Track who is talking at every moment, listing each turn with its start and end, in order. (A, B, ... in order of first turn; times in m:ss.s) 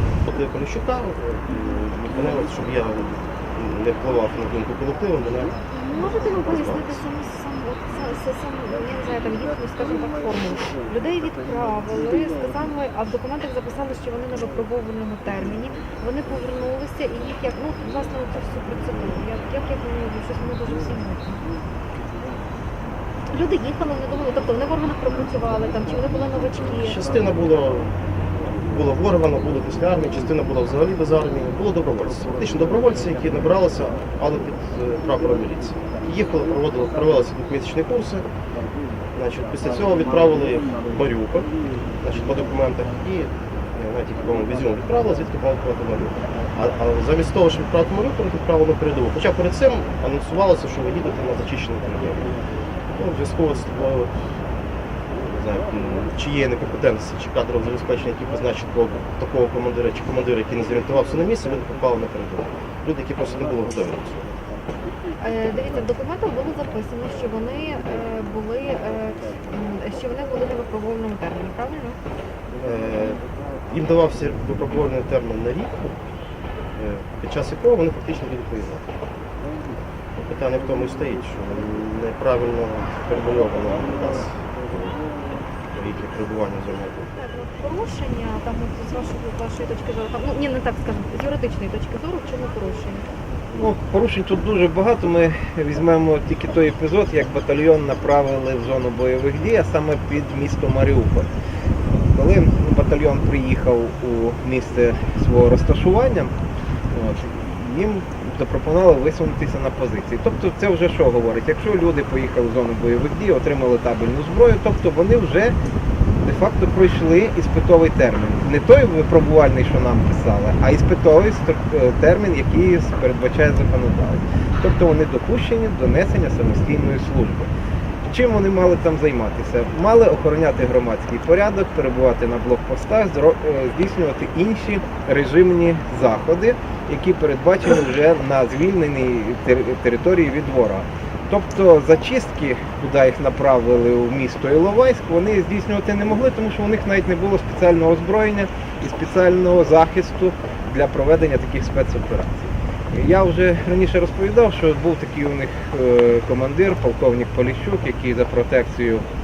0:00.2-0:07.0 A
0:05.8-0:21.4 B
0:23.3-0:27.1 B
0:26.8-0:27.9 A
0:28.7-0:38.3 A
0:39.2-0:41.5 A
0:42.0-0:52.4 A
0:52.9-0:54.3 A
0:55.2-1:04.3 A
1:05.2-1:12.0 B
1:12.6-1:15.9 A
1:16.8-1:18.9 A
1:20.1-1:25.0 A
1:25.7-1:27.1 A
1:27.2-1:33.1 B
1:33.5-1:41.3 C
1:41.9-1:46.3 C
1:46.9-1:55.6 C
1:56.2-2:07.5 C
2:08.0-2:39.1 C